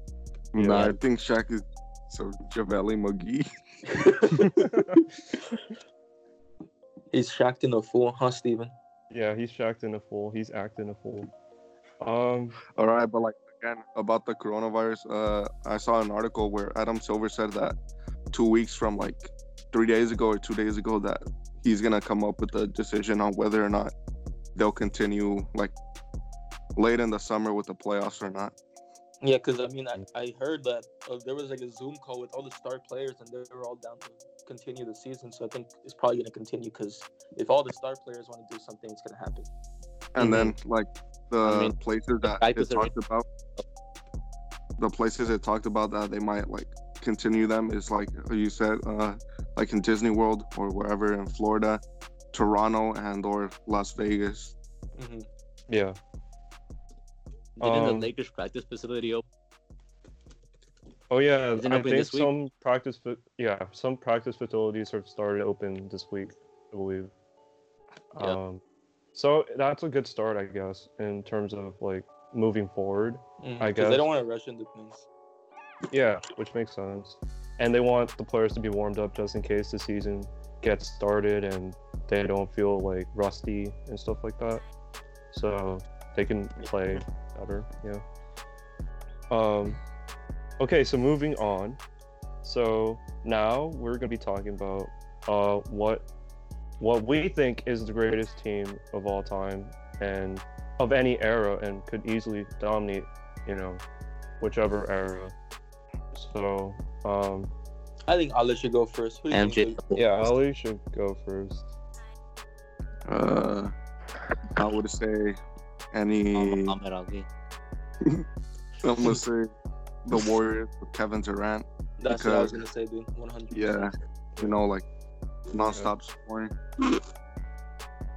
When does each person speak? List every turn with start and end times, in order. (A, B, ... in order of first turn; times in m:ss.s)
0:00.5-0:03.5 A
0:00.5-0:01.0 B
0:03.9-0:04.7 C
0:04.4-0:05.0 B
0:07.1-0:08.7 C
0:09.1-0:11.3 B
0:12.0-0:12.6 B
0:12.7-0:17.8 A
0:18.3-0:23.9 A
0:24.6-0:25.7 A
0:26.8-0:28.5 A
0:29.2-0:39.5 C
0:40.1-0:43.2 A
0:40.2-0:40.5 D
0:41.4-0:42.9 D
0:44.8-0:51.8 A
0:52.3-0:54.5 A
0:55.0-0:55.3 C
0:55.7-0:56.0 B
0:57.6-0:59.2 D
0:57.6-0:58.1 B
1:01.1-1:07.1 B
1:01.6-1:02.3 D
1:08.1-1:08.6 B
1:09.1-1:14.1 B
1:13.4-1:15.1 C
1:15.9-1:24.6 B
1:25.3-1:28.0 B
1:29.3-1:29.8 B
1:30.6-1:31.8 B
1:32.4-1:36.0 B
1:36.8-1:43.8 B
1:44.4-1:45.3 B
1:46.1-1:47.5 B
1:48.1-1:49.8 C
1:49.3-1:50.3 D
1:49.9-1:51.6 B
1:53.1-1:53.7 A
1:54.6-1:55.4 A
1:55.9-1:56.8 A
1:56.3-1:57.3 D
1:58.8-1:59.5 A
2:00.0-2:02.6 A
2:02.0-2:03.9 C
2:03.5-2:04.8 A
2:05.5-2:06.5 A